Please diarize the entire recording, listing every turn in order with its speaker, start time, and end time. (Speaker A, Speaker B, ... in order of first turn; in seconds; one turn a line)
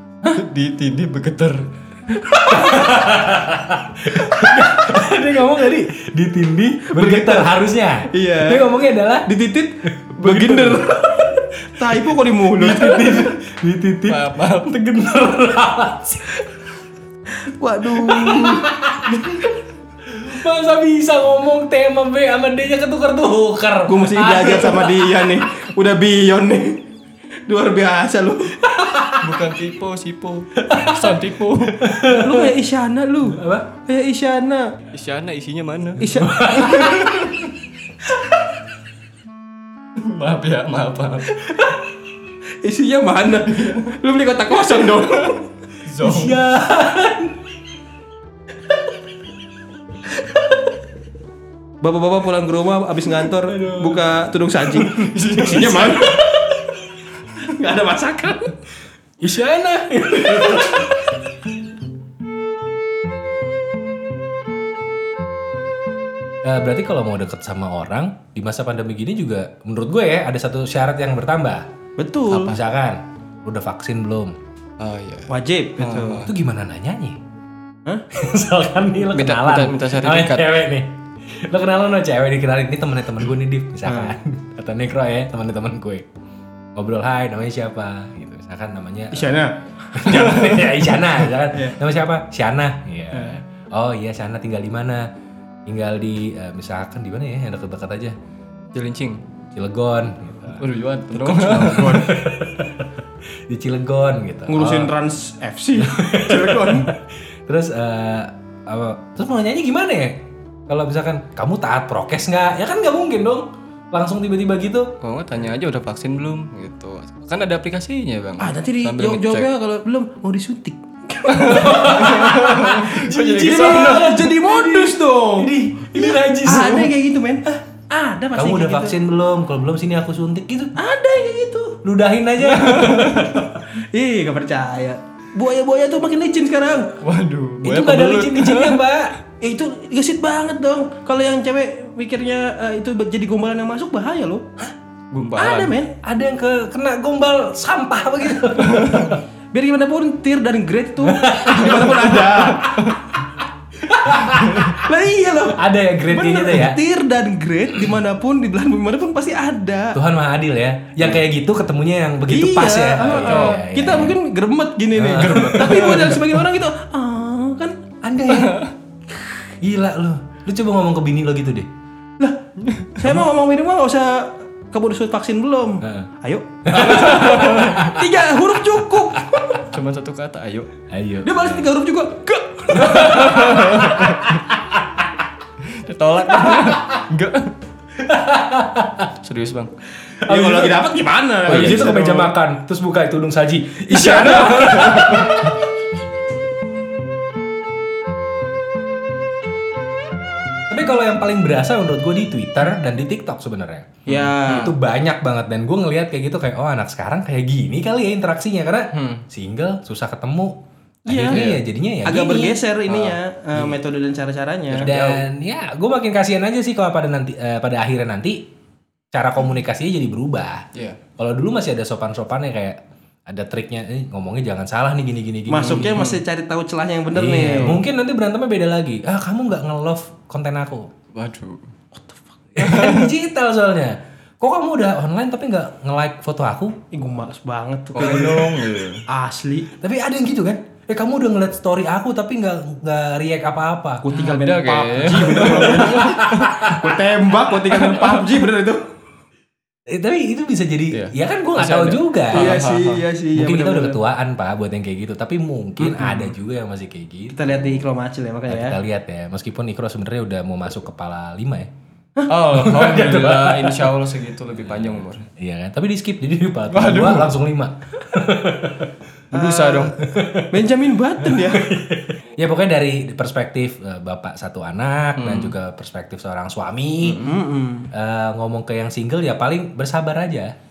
Speaker A: 0.2-1.7
Speaker B: 2.3-9.3
Speaker C: 6.9-7.5
Speaker C: 8.1-8.7
Speaker C: 9.2-11.0
Speaker B: 10.0-11.4
Speaker C: 11.8-13.3
Speaker B: 12.5-16.4
Speaker A: 14.1-14.8
Speaker C: 17.3-19.5
Speaker B: 17.9-19.5
Speaker B: 20.1-25.4
Speaker C: 23.9-26.8
Speaker C: 27.5-28.7
Speaker B: 28.8-29.3
Speaker A: 29.2-31.8
Speaker B: 30.6-31.2
Speaker B: 31.8-32.5
Speaker C: 32.0-34.7
Speaker B: 33.3-33.7
Speaker A: 34.9-36.1
Speaker C: 36.0-36.9
Speaker B: 36.0-37.2
Speaker A: 36.7-37.5
Speaker A: 40.0-41.4
Speaker C: 41.4-41.7
Speaker C: 42.6-45.4
Speaker A: 43.5-43.9
Speaker A: 44.8-46.4
Speaker B: 46.0-47.4
Speaker C: 51.8-56.6
Speaker B: 53.1-54.1
Speaker A: 54.9-56.2
Speaker C: 57.4-58.5
Speaker B: 59.2-61.1
Speaker B: 66.4-71.7
Speaker C: 72.0-72.6
Speaker B: 72.3-74.3
Speaker A: 72.3-72.6
Speaker A: 74.8-76.3
Speaker C: 75.3-76.3
Speaker B: 76.2-77.2
Speaker B: 78.1-86.0
Speaker A: 79.1-80.5
Speaker C: 83.8-84.1
Speaker B: 86.8-89.3
Speaker C: 89.1-90.2
Speaker B: 89.9-95.1
Speaker A: 90.3-90.5
Speaker C: 91.5-91.8
Speaker A: 93.1-93.4
Speaker B: 95.7-98.1
Speaker A: 98.7-99.2
Speaker B: 99.5-102.9
Speaker A: 100.6-102.2
Speaker C: 101.7-102.0
Speaker B: 103.5-104.9
Speaker C: 104.5-106.9
Speaker B: 105.8-114.9
Speaker A: 115.0-119.5
Speaker C: 118.4-122.5
Speaker A: 121.3-124.2
Speaker B: 121.4-126.9
Speaker C: 123.2-128.9
Speaker B: 128.3-130.7
Speaker C: 130.8-131.8
Speaker B: 131.8-133.6
Speaker A: 132.4-133.4
Speaker C: 133.7-136.9
Speaker A: 137.0-138.8
Speaker B: 137.6-139.1
Speaker C: 139.4-144.4
Speaker A: 145.1-145.7
Speaker C: 145.4-145.9
Speaker B: 146.0-149.2
Speaker A: 148.6-149.1
Speaker C: 149.5-152.7
Speaker B: 151.1-152.8
Speaker A: 152.6-153.0
Speaker B: 153.8-154.7
Speaker A: 154.4-154.7
Speaker C: 154.6-160.0
Speaker B: 155.5-156.8
Speaker B: 159.9-164.2
Speaker C: 162.3-167.8
Speaker A: 163.1-163.6
Speaker B: 164.9-165.9
Speaker A: 165.2-166.2
Speaker B: 168.0-168.7
Speaker A: 168.4-168.7
Speaker B: 169.4-171.7
Speaker A: 172.6-172.9
Speaker C: 172.9-179.7
Speaker B: 175.8-176.1
Speaker B: 176.7-177.9
Speaker A: 177.2-177.8
Speaker A: 179.7-180.7
Speaker B: 180.9-181.7
Speaker C: 181.2-183.6
Speaker B: 182.7-184.4
Speaker A: 182.9-184.2
Speaker A: 185.6-187.5
Speaker B: 188.0-189.1
Speaker A: 189.2-189.7
Speaker B: 190.2-190.8
Speaker C: 190.2-192.3
Speaker B: 191.4-195.5
Speaker A: 193.9-195.5
Speaker C: 194.5-195.1
Speaker B: 200.7-212.6
Speaker A: 204.1-204.6
Speaker C: 204.1-204.7
Speaker A: 208.9-209.2
Speaker C: 211.1-211.4
Speaker A: 211.3-211.6
Speaker C: 212.0-215.2
Speaker B: 214.7-218.4
Speaker B: 219.1-220.7
Speaker B: 221.2-222.8
Speaker B: 223.3-226.0
Speaker C: 225.5-227.8
Speaker A: 225.6-226.2
Speaker B: 227.1-230.9
Speaker A: 231.1-231.6
Speaker B: 232.6-236.8
Speaker A: 232.6-233.1
Speaker C: 236.9-238.6
Speaker A: 237.9-239.0
Speaker B: 238.0-238.4
Speaker C: 239.1-239.7
Speaker B: 239.8-244.1
Speaker C: 244.0-248.8
Speaker A: 244.1-246.5
Speaker B: 245.2-246.8
Speaker A: 247.7-248.2
Speaker B: 249.9-252.6
Speaker A: 250.9-253.0
Speaker C: 252.3-254.0
Speaker B: 253.3-257.8
Speaker C: 257.3-258.8
Speaker B: 258.5-261.7
Speaker A: 262.3-265.3
Speaker B: 262.5-263.9
Speaker B: 265.4-268.9
Speaker A: 266.7-267.3
Speaker C: 269.3-269.9
Speaker A: 269.3-270.0
Speaker B: 269.6-270.6
Speaker C: 270.5-271.7
Speaker B: 271.2-277.3
Speaker A: 275.2-275.6
Speaker C: 277.1-277.9
Speaker B: 277.9-280.5